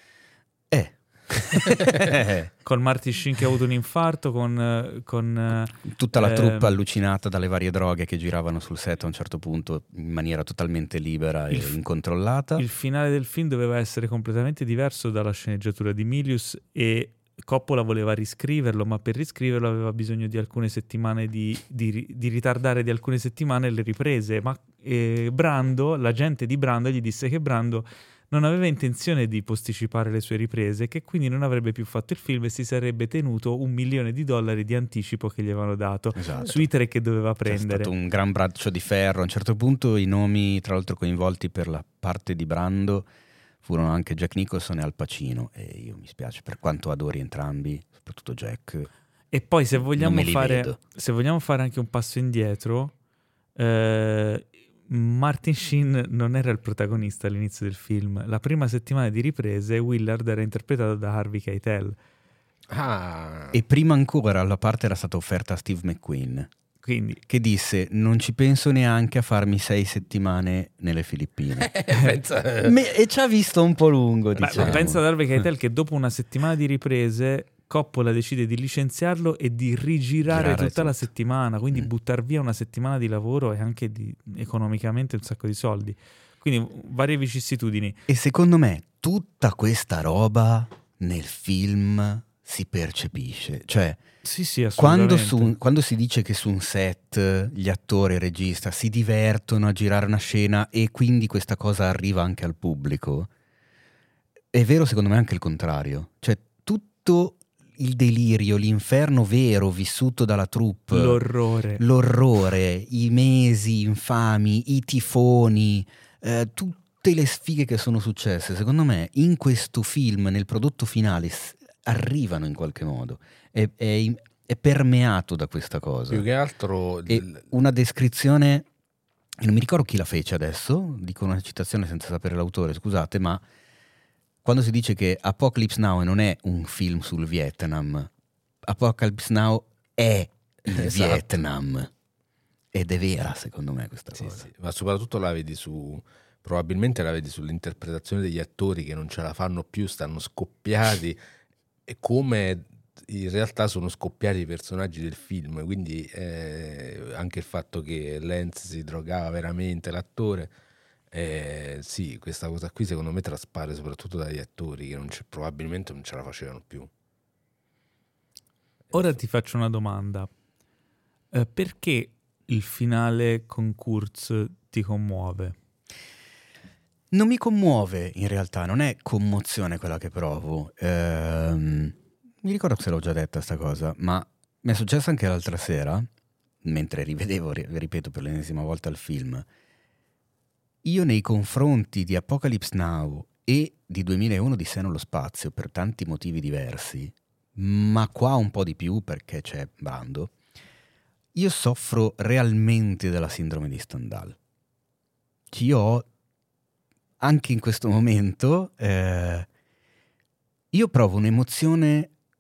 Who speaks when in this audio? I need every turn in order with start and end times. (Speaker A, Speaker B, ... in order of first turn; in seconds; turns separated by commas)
Speaker A: 0.7-2.5, Speaker B: 2.6-6.8, Speaker A: 5.8-12.7, Speaker B: 12.6-37.9, Speaker A: 36.2-36.7, Speaker A: 37.5-43.1, Speaker A: 43.6-48.9, Speaker B: 49.3-52.9, Speaker A: 49.8-50.8, Speaker B: 53.6-62.0, Speaker C: 62.7-63.6, Speaker A: 63.5-66.5, Speaker B: 66.8-67.2, Speaker A: 67.3-71.8, Speaker C: 71.6-72.8, Speaker A: 72.6-75.4, Speaker B: 74.4-88.0, Speaker C: 74.6-74.8, Speaker A: 80.3-81.1, Speaker A: 88.1-94.0, Speaker B: 94.2-95.5, Speaker A: 94.8-103.3, Speaker A: 104.5-111.2, Speaker B: 110.9-111.8, Speaker A: 111.8-126.3, Speaker C: 126.1-127.5, Speaker A: 127.1-128.7, Speaker A: 129.4-133.4, Speaker A: 134.4-138.1, Speaker A: 138.7-141.9, Speaker C: 140.7-141.4, Speaker A: 142.7-144.5, Speaker C: 144.2-151.2, Speaker C: 151.9-160.5, Speaker C: 161.1-166.9, Speaker B: 168.9-170.3, Speaker B: 171.3-175.6, Speaker A: 177.1-186.1, Speaker A: 186.6-189.5, Speaker A: 190.8-200.3, Speaker A: 201.3-204.4, Speaker A: 205.5-206.1, Speaker A: 207.2-209.5, Speaker A: 210.7-212.1